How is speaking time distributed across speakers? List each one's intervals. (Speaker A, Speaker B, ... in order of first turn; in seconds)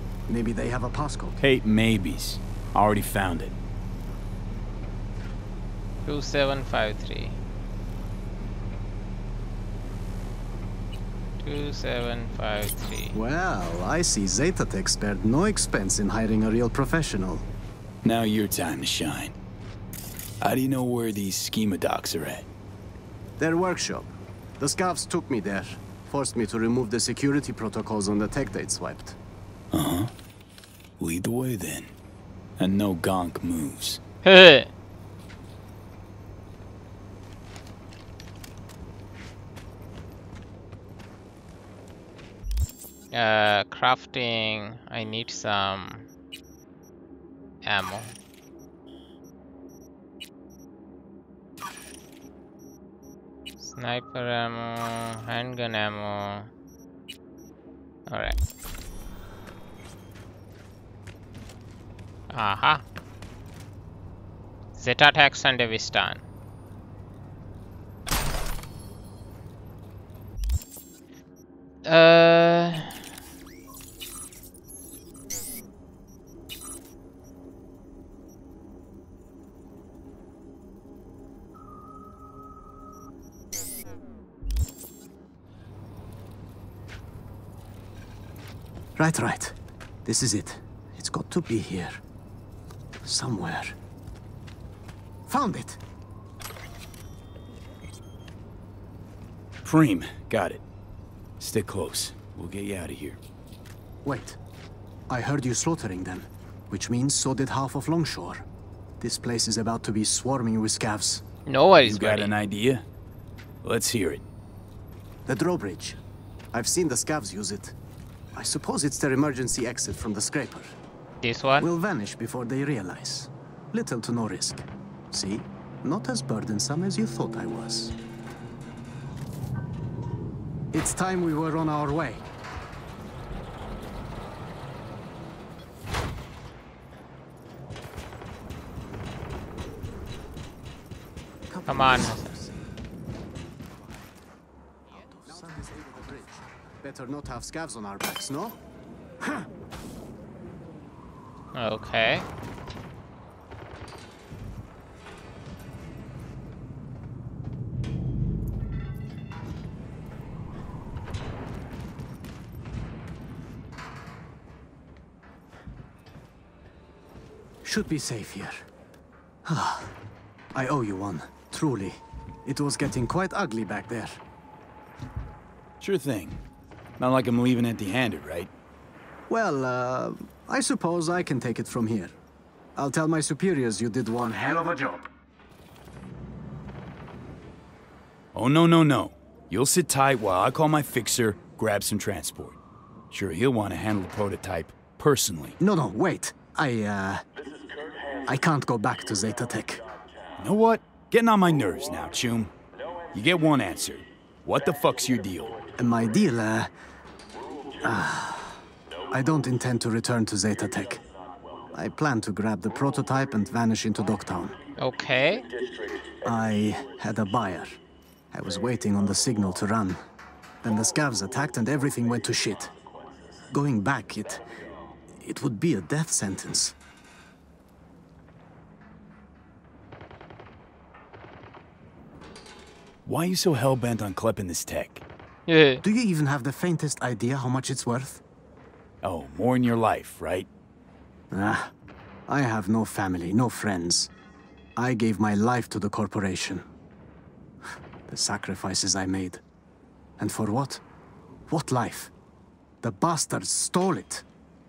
Speaker A: 0.3-1.4, 13.1-17.4, 23.4-29.2, 89.0-92.0, 93.0-93.8, 95.3-95.8, 104.0-104.4, 105.1-108.5, 109.0-111.2, 115.2-116.0, 116.5-117.8, 118.3-120.8, 121.6-127.9, 130.7-132.2, 141.5-142.6, 145.0-148.6, 149.2-149.5, 167.6-168.7, 169.4-169.9, 170.5-174.2, 179.3-182.1, 182.8-185.1, 195.6-197.2, 198.2-199.8, 205.8-206.7, 207.8-211.0, 211.7-214.6, 216.2-217.8, 218.3-220.0, 220.6-222.8, 223.5-226.7, 235.8-238.2, 241.3-241.7, 242.3-244.1, 244.8-246.7, 248.1-249.4, 250.2-250.8, 251.5-252.1, 252.8-254.2
Speaker B: 1.4-3.6, 18.0-19.3, 20.4-22.4, 29.7-30.1, 31.0-31.9, 32.6-34.0, 99.6-100.6, 101.4-103.2, 111.8-112.8, 113.6-114.2, 175.8-176.4, 177.0-178.5, 188.3-192.6, 193.1-195.6, 200.4-202.5, 203.1-205.6, 233.0-235.0, 239.0-240.5
Speaker C: 6.0-7.4, 11.4-13.2, 34.2-34.7, 43.1-46.1, 47.6-48.1, 53.6-56.5, 58.1-58.4, 62.3-62.8, 64.8-66.2, 71.8-73.0, 111.5-112.3, 121.2-121.7, 141.7-142.3, 151.5-152.3, 214.8-215.5, 235.5-235.8